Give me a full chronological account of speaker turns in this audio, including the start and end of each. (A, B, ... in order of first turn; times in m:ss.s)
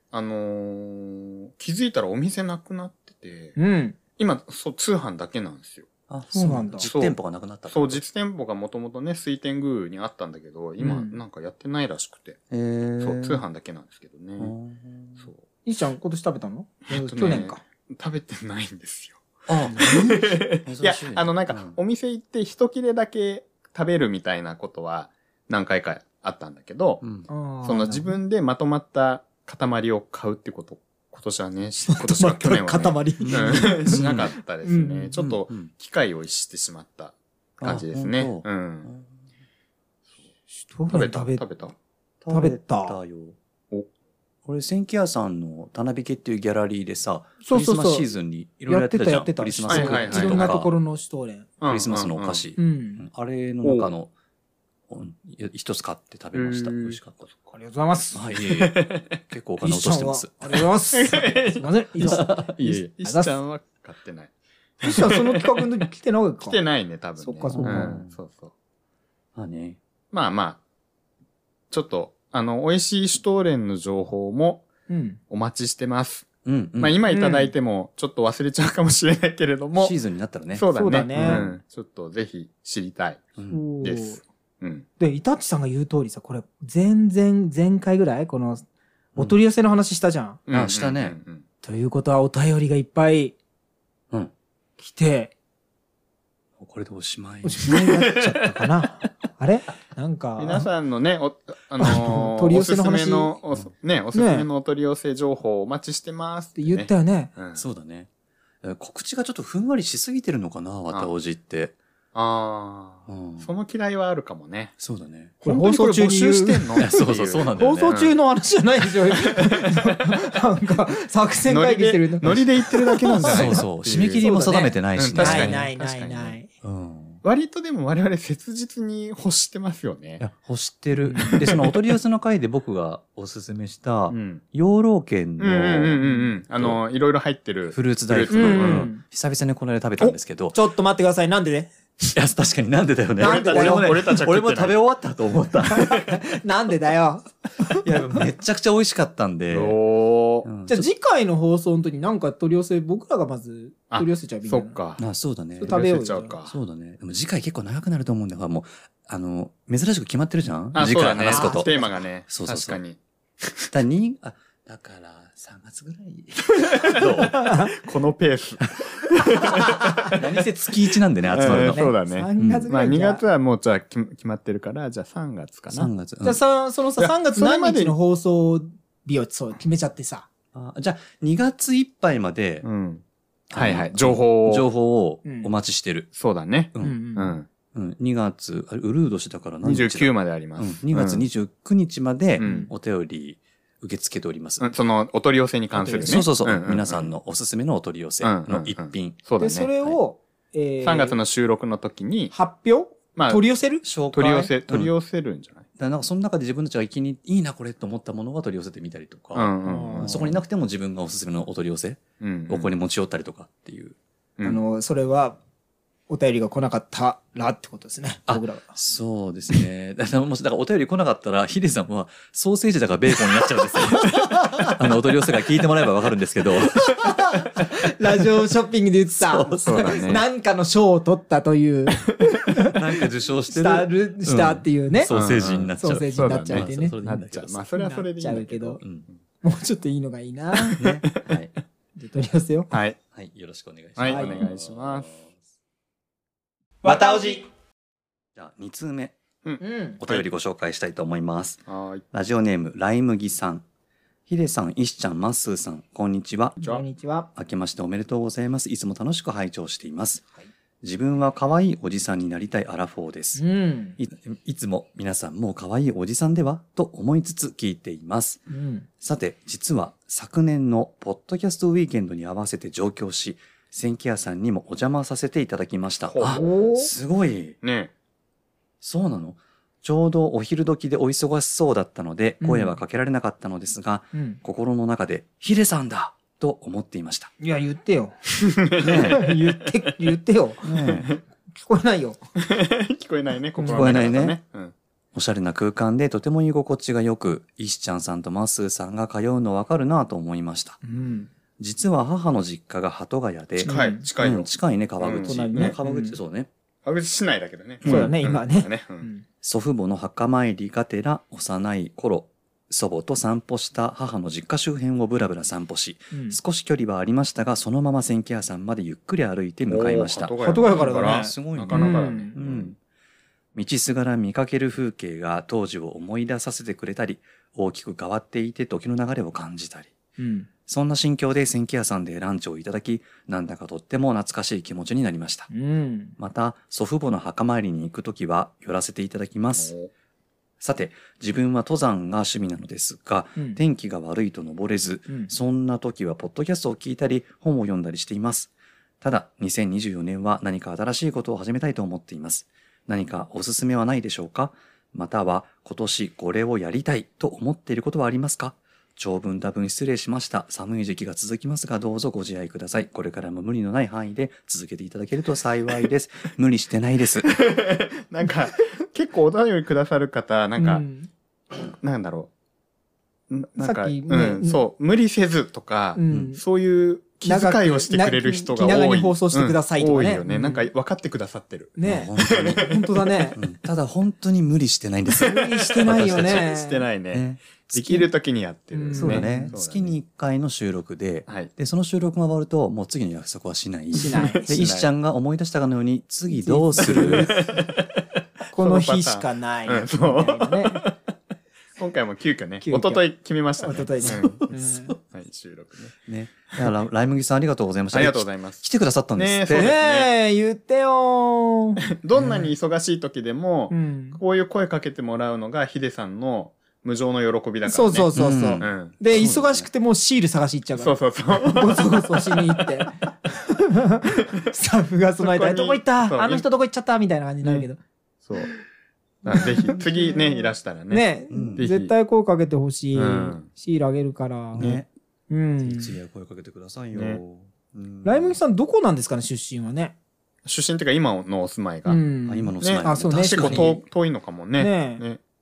0:00.1-0:03.6 A
0:03.6-0:04.0 B
0:04.2-0:05.9 A
0:06.1-0:08.0 C
0:06.3-0:06.9 B
0:06.8-0:12.4 A
0:10.8-0:11.2 B
0:12.5-0:13.4 C
0:13.0-0:14.5 A
0:14.4-0:15.3 C
0:15.6-0:17.6 B
0:16.9-0:27.0 A
0:19.5-0:21.8 C
0:27.0-0:27.3 C
0:27.3-0:28.1 B
0:27.6-0:38.9 A
0:31.9-0:34.0 B
0:33.2-0:34.3 C
0:34.6-0:35.1 B
0:35.2-0:35.7 C
0:37.6-0:39.1 C
0:40.5-0:41.4 B
0:40.9-0:41.7 A
0:42.2-0:43.4 C
0:42.3-0:43.0 B
0:44.4-0:50.7 C
0:47.4-0:48.1 B
0:48.6-0:51.5 B
0:49.7-0:50.5 A
0:51.6-0:52.5 A
0:51.6-0:54.1 C
0:52.6-0:53.0 B
0:53.6-0:53.9 A
0:54.9-0:57.3 C
0:56.3-0:57.1 A
0:57.5-0:58.4 B
0:58.1-1:00.6 C
0:58.4-0:59.2 A
0:59.6-1:03.3 B
1:00.9-1:04.3 A
1:02.0-1:02.5 C
1:04.8-1:06.6 B
1:04.8-1:05.6 A
1:06.4-1:08.5 A
1:07.2-1:08.0 B
1:07.5-1:08.1 C
1:09.3-1:09.8 C
1:10.1-1:10.6 A
1:11.7-1:14.7 A
1:14.9-1:15.2 B
1:15.3-1:16.3 A
1:16.4-1:17.0 C
1:16.8-1:20.0 A
1:17.1-1:17.5 B
1:19.8-1:21.5 C
1:20.5-1:23.3 A
1:20.7-1:21.5 B
1:23.4-1:23.6 C
1:23.5-1:24.2 B
1:23.8-1:24.9 A
1:25.0-1:30.4 B
1:30.5-1:31.4 A
1:30.5-1:31.2 C
1:31.6-1:33.4 B
1:34.8-1:35.3 B
1:36.6-1:38.2 C
1:37.4-1:40.7 B
1:40.4-1:47.6 A
1:41.8-1:43.3 B
1:44.1-1:44.5 B
1:46.6-1:47.3 B
1:47.5-1:48.1 C
1:48.6-1:51.8 C
1:52.1-1:54.7 A
1:53.1-1:53.5 C
1:54.8-1:55.3 C
1:55.4-1:58.2 A
1:55.4-2:03.6 B
1:56.8-1:58.0 C
1:59.2-2:00.2 A
2:01.5-2:04.3 A
2:03.2-2:05.7 C
2:04.2-2:06.5 B
2:05.0-2:06.4 A
2:06.6-2:07.2 C
2:07.2-2:10.2 A
2:10.2-2:16.0 C
2:11.0-2:11.5 B
2:11.3-2:11.8 A
2:14.1-2:14.4 A
2:15.4-2:18.9 A
2:16.0-2:16.3 B
2:17.7-2:20.6 C
2:18.3-2:19.0 B
2:20.0-2:21.7 B
2:22.1-2:26.2 C
2:23.2-2:24.0 B
2:23.2-2:24.8 A
2:25.6-2:27.9 B
2:27.8-2:29.8 C
2:29.5-2:30.5 A
2:30.4-2:30.9 C
2:30.7-2:34.7 B
2:33.9-2:35.0 A
2:35.0-2:35.9 C
2:35.6-2:36.3 B
2:35.6-2:36.5 A
2:36.4-2:41.7 C
2:40.7-2:43.0 A
2:41.2-2:42.0 B
2:42.3-2:42.8 C
2:43.7-2:47.4 C
2:46.6-2:50.2 A
2:47.3-2:47.7 B
2:50.1-2:51.9 C
2:51.3-2:55.9 A
2:51.4-2:53.2 B
2:52.4-2:52.7 C
2:55.7-2:56.4 C
2:56.2-3:00.2 B
2:57.0-2:58.0 A
3:00.5-3:02.6 C
3:02.6-3:04.7 A
3:03.5-3:06.1 C
3:05.2-3:05.5 B
3:06.1-3:07.4 A
3:06.8-3:07.4 B
3:07.7-3:14.7 C
3:09.6-3:11.2 A
3:12.4-3:12.7 A
3:12.4-3:12.7 B
3:14.6-3:17.1 A
3:15.7-3:20.0 C
3:15.8-3:16.2 B
3:18.2-3:19.7 A
3:19.4-3:21.2 B
3:20.8-3:22.3 A
3:22.3-3:23.8 B
3:23.2-3:23.4 A
3:23.8-3:24.9 C
3:24.1-3:25.6 A
3:25.8-3:34.0 C
3:29.3-3:30.4 A
3:29.6-3:30.2 B
3:32.2-3:32.7 A
3:34.4-3:35.4 B
3:36.1-3:38.8 B
3:38.3-3:47.3 C
3:43.3-3:44.8 B
3:46.7-3:52.8 B
3:49.1-3:50.2 C
3:49.6-3:50.2 A
3:52.7-3:57.6 C
3:53.5-3:55.2 B
3:55.1-3:59.2 A
3:55.8-3:57.0 B
3:57.8-3:58.8 B
3:59.4-4:00.8 B
4:00.8-4:01.5 C
4:02.0-4:02.7 B
4:02.7-4:03.0 A
4:03.1-4:05.4 C
4:04.0-4:05.1 A
4:04.0-4:04.4 B
4:06.8-4:07.4 C
4:06.8-4:07.4 B
4:08.3-4:09.1 C
4:09.4-4:10.2 A
4:09.6-4:10.0 B
4:10.0-4:13.6 C
4:11.7-4:12.0 A
4:14.3-4:16.6 C
4:16.6-4:17.3 B
4:17.3-4:20.2 C
4:20.8-4:23.4 C
4:23.4-4:24.0 B
4:24.0-4:28.5 C
4:28.5-4:28.9 B
4:29.0-4:37.6 C
4:36.1-4:36.7 A
4:36.3-4:36.9 B
4:37.6-4:37.9 A
4:38.8-4:47.3 C
4:42.4-4:42.8 B
4:44.1-4:44.4 B
4:47.4-4:48.2 B
4:48.6-4:49.2 A
4:48.8-4:52.2 B
4:48.8-4:49.3 C
4:50.6-4:51.1 C
4:52.4-4:54.7 A
4:53.6-4:54.0 B
4:53.7-4:54.4 C
4:55.1-5:00.8 C
5:00.8-5:01.3 B
5:01.6-5:06.5 C
5:03.6-5:04.0 B
5:03.6-5:05.8 A
5:05.2-5:06.2 B
5:06.8-5:09.1 A
5:07.8-5:08.1 C
5:07.8-5:09.2 B
5:09.4-5:22.7 C
5:16.1-5:16.4 B
5:19.7-5:22.8 A
5:20.4-5:22.3 B
5:23.5-5:29.9 C
5:30.2-5:30.5 B
5:30.7-5:35.5 C
5:35.5-5:36.2 B
5:36.2-5:39.7 C
5:39.5-5:39.9 A
5:40.6-6:07.3 C
6:07.3-6:10.9 A
6:10.6-6:11.1 B
6:11.8-6:12.3 A
6:13.3-6:23.2 A
6:13.6-6:14.6 B
6:16.0-6:16.4 B
6:17.2-6:20.7 B
6:21.8-6:23.4 B
6:21.8-6:22.7 C
6:23.4-6:26.5 C
6:25.2-6:26.8 B
6:25.8-6:30.0 A
6:27.1-6:27.6 C
6:28.7-6:29.5 B
6:28.9-6:37.3 C
6:33.9-6:34.5 B
6:34.0-6:34.9 A
6:36.3-6:37.5 B
6:36.8-6:38.0 A
6:38.5-6:40.9 A
6:38.5-6:40.8 B
6:41.8-6:44.5 A
6:42.6-6:43.0 B
6:43.6-6:45.0 B
6:44.0-6:44.9 C
6:45.1-6:45.9 A
6:46.1-6:49.7 C
6:47.9-6:50.1 A
6:49.5-6:52.5 B
6:51.9-6:58.1 A
6:53.7-6:54.2 B
6:57.6-7:07.8 B
6:58.1-6:59.7 C
6:58.6-6:59.3 A
7:00.8-7:02.6 A
7:05.2-7:06.4 A
7:08.2-7:08.5 A
7:09.2-7:11.9 A
7:09.3-7:10.2 B
7:10.9-7:14.8 B
7:11.3-7:11.6 C
7:12.9-7:13.5 A
7:14.5-7:14.9 C
7:15.3-7:16.0 B
7:15.6-7:18.4 C
7:16.9-7:17.2 A
7:18.0-7:19.9 B
7:20.4-7:22.0 A
7:21.8-7:23.8 B
7:22.2-7:23.8 C
7:22.6-7:25.2 A
7:24.6-7:25.0 B